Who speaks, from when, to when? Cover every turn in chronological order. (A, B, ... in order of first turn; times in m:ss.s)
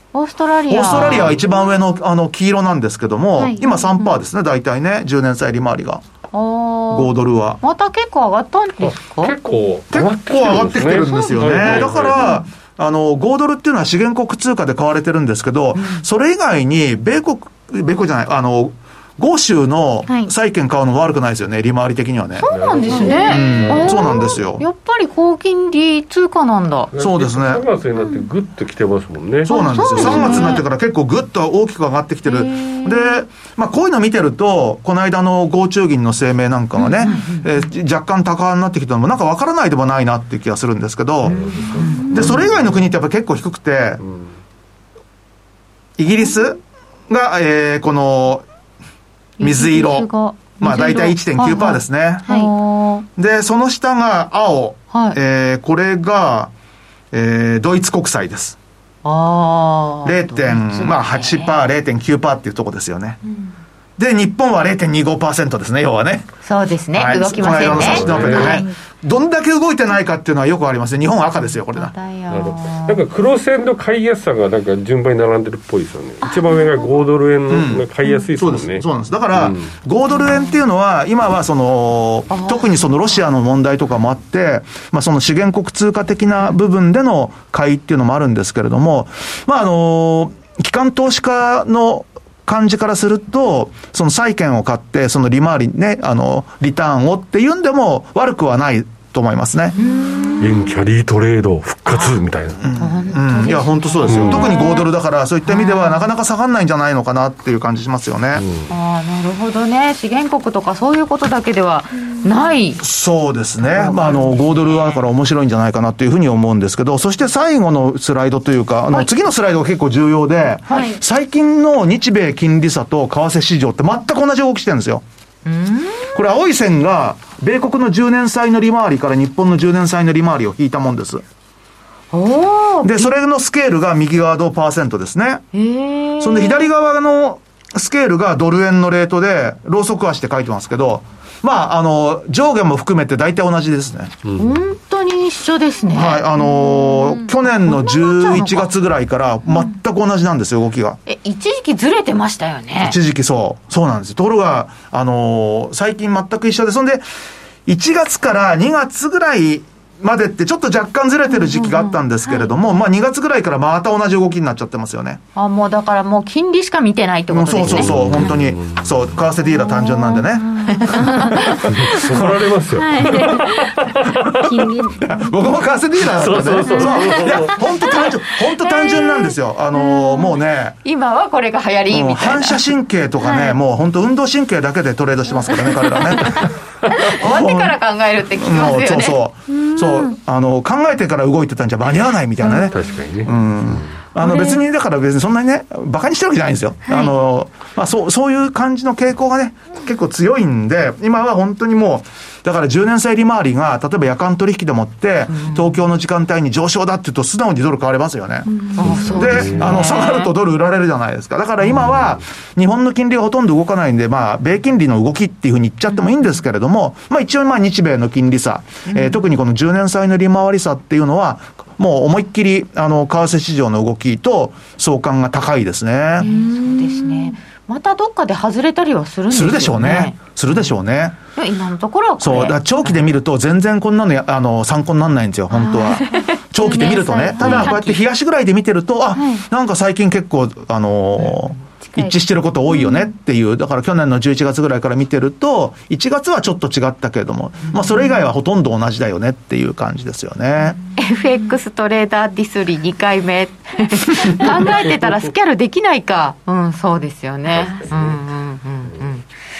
0:00.1-0:01.3 A
0:00.7-0:06.0 B
0:00.9-0:01.4 C
0:03.4-0:03.7 D
0:06.3-0:09.3 A
0:06.9-0:07.6 B
0:08.8-0:12.4 C
0:09.9-0:22.5 B
0:11.0-0:11.7 D
0:15.7-0:16.0 A
0:20.1-0:20.3 D
0:22.4-0:26.9 A
0:22.4-0:24.4 C
0:22.9-0:23.4 D
0:23.2-0:24.6 B
0:26.9-0:30.1 C
0:27.0-0:27.6 B
0:28.0-0:28.3 D
0:29.4-0:41.4 B
0:29.5-0:30.6 A
0:30.0-0:30.6 D
0:32.2-0:33.2 A
0:36.8-0:37.4 A
0:41.2-0:42.6 C
0:41.4-0:42.4 A
0:41.8-0:42.4 D
0:42.0-0:44.0 B
0:46.0-0:48.4 B
0:49.4-0:53.0 A
0:49.4-0:52.3 B
0:52.2-0:52.5 D
0:53.2-0:56.5 B
0:54.9-0:55.2 A
0:57.1-0:58.6 B
0:59.0-1:01.6 A
1:00.0-1:03.2 B
1:04.0-1:06.3 B
1:06.4-1:08.6 A
1:06.9-1:11.9 B
1:07.1-1:08.7 D
1:07.6-1:08.6 C
1:11.7-1:13.0 A
1:12.3-1:19.7 C
1:16.2-1:17.0 D
1:17.5-1:17.8 B
1:18.4-1:39.8 B
1:22.3-1:22.8 A
1:39.8-1:40.7 A
1:40.4-1:42.6 C
1:42.6-1:48.4 B
1:42.7-1:44.9 A
1:44.1-1:44.5 C
1:44.3-1:44.7 D
1:45.4-1:46.1 A
1:48.4-1:48.7 C
1:48.7-1:52.8 A
1:52.8-2:05.0 B
1:53.6-1:55.0 A
2:00.7-2:01.0 D
2:05.4-2:06.1 A
2:06.1-2:11.2 B
2:12.1-2:13.1 A
2:12.8-2:15.4 B
2:15.5-2:16.7 A
2:16.2-2:24.1 B
2:24.4-2:28.7 A
2:25.9-2:31.0 B
2:31.0-2:33.0 A
2:32.8-2:37.0 B
2:37.6-2:45.2 B
2:41.3-2:42.0 A
2:45.4-2:48.2 A
2:47.3-2:52.5 B
2:47.6-2:49.2 C
2:49.5-2:51.6 D
2:50.8-2:51.6 A
2:51.6-2:54.4 C
2:52.8-2:55.4 D
2:53.0-2:53.3 B
2:55.0-3:00.8 B
2:56.1-2:57.6 C
2:56.6-2:57.2 D
2:58.6-2:59.3 A
2:59.9-3:02.7 A
3:01.9-3:06.5 B
3:03.2-3:03.6 D
3:05.6-3:05.9 D
3:06.9-3:09.2 A
3:07.1-3:07.8 B
3:08.4-3:28.5 B
3:09.5-3:10.2 D
3:12.4-3:12.7 A
3:12.7-3:14.0 C
3:14.2-3:14.6 A
3:25.3-3:25.7 A
3:28.5-3:29.5 D
3:28.8-3:30.3 A
3:28.8-3:29.8 C
3:29.1-3:46.3 B
3:31.7-3:32.2 C
3:38.9-3:39.2 A
3:46.2-3:47.4 D
3:46.2-3:50.7 A
3:49.3-3:51.2 B
3:51.4-3:53.0 A
3:52.2-4:10.8 B
3:55.5-3:58.0 D
3:57.4-3:57.7 C
3:59.1-3:59.4 D
4:01.9-4:02.2 D
4:02.7-4:03.0 D
4:11.0-4:19.2 A
4:17.5-4:18.1 C